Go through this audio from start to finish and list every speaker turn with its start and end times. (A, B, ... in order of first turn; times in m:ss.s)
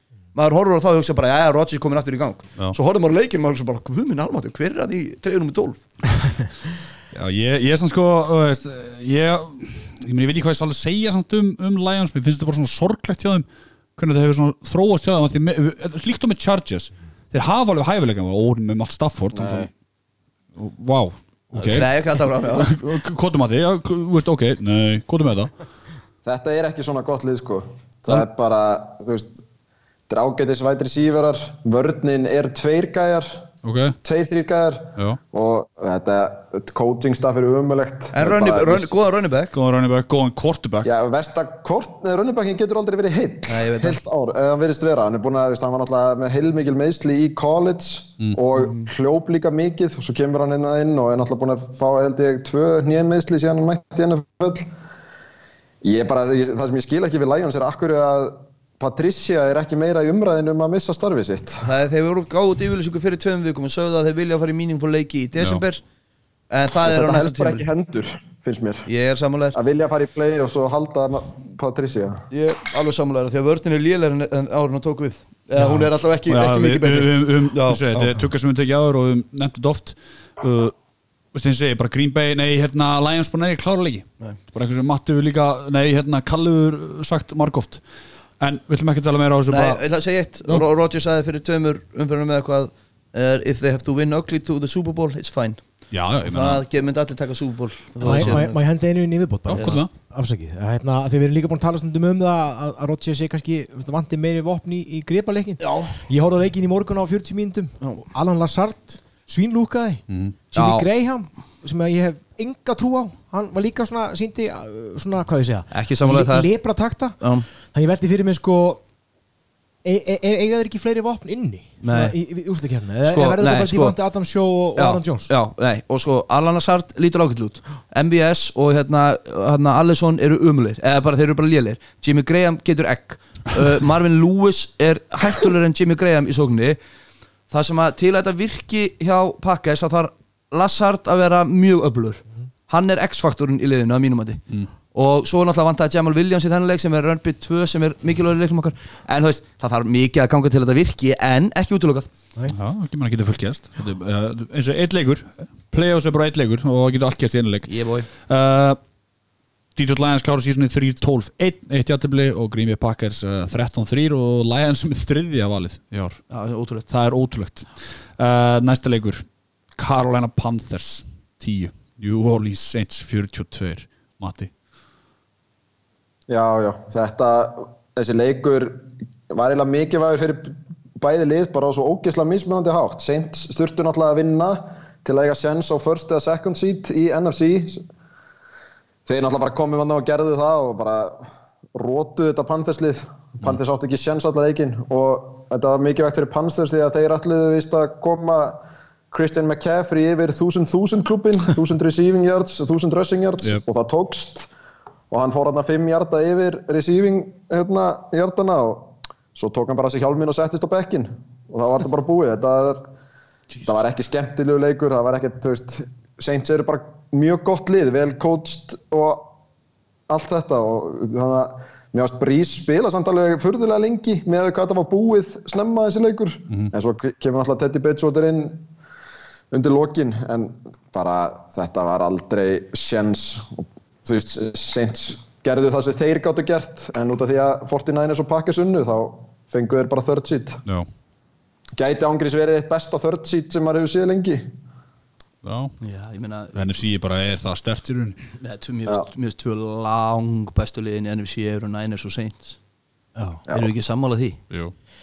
0:00.3-0:05.8 A
0:07.1-0:19.7 B
0:19.3-0:19.7 C
0:20.6-0:25.5 B
0:21.6-0:22.8 A
0:26.2-0:29.4 C
0:30.1-0:33.4 C
0:33.6-0:34.0 B
0:34.0-0:38.9 C
0:38.1-0:39.5 A
0:39.5-0:40.9 B
0:40.8-0:54.7 C
0:43.5-0:44.0 A
0:48.6-0:48.9 A
0:55.8-1:01.7 C
1:01.6-1:05.8 A
1:05.4-1:05.6 B
1:06.5-1:07.7 A
1:06.8-1:08.9 C
1:08.9-1:09.6 A
1:09.5-1:12.2 C
1:12.3-1:18.2 A
1:15.6-1:15.9 D
1:16.3-1:20.8 B
1:21.3-1:27.8 B
1:28.4-1:29.8 B
1:29.5-1:38.6 A
1:35.9-1:36.6 B
1:38.0-1:57.2 D
1:38.1-1:38.4 B
1:39.5-1:39.9 B
1:45.6-1:46.0 A
1:50.1-1:50.4 B
1:50.5-1:50.9 A
1:55.7-1:56.5 A
1:57.2-1:57.5 A
1:57.7-1:58.8 D
1:59.8-2:05.3 D
2:01.8-2:02.2 A
2:03.0-2:04.0 A
2:04.8-2:16.8 A
2:17.5-2:32.1 A
2:32.5-2:38.8 B
2:37.7-2:38.1 A
2:39.8-2:46.2 B
2:46.3-2:46.9 A
2:46.9-2:49.2 B
2:49.8-2:54.5 B
2:56.3-3:07.8 C
3:09.1-3:11.2 C
3:11.8-3:18.6 C
3:19.1-3:24.5 C
3:25.1-3:32.9 C
3:33.6-3:39.4 C
3:40.1-3:48.6 C
3:49.5-4:00.6 C
4:01.8-4:04.4 C
4:05.4-4:05.8 B
4:05.8-4:06.6 A
4:06.5-4:08.2 B
4:08.4-4:12.6 A
4:13.2-4:13.4 D
4:13.5-4:14.4 A
4:14.5-4:14.8 B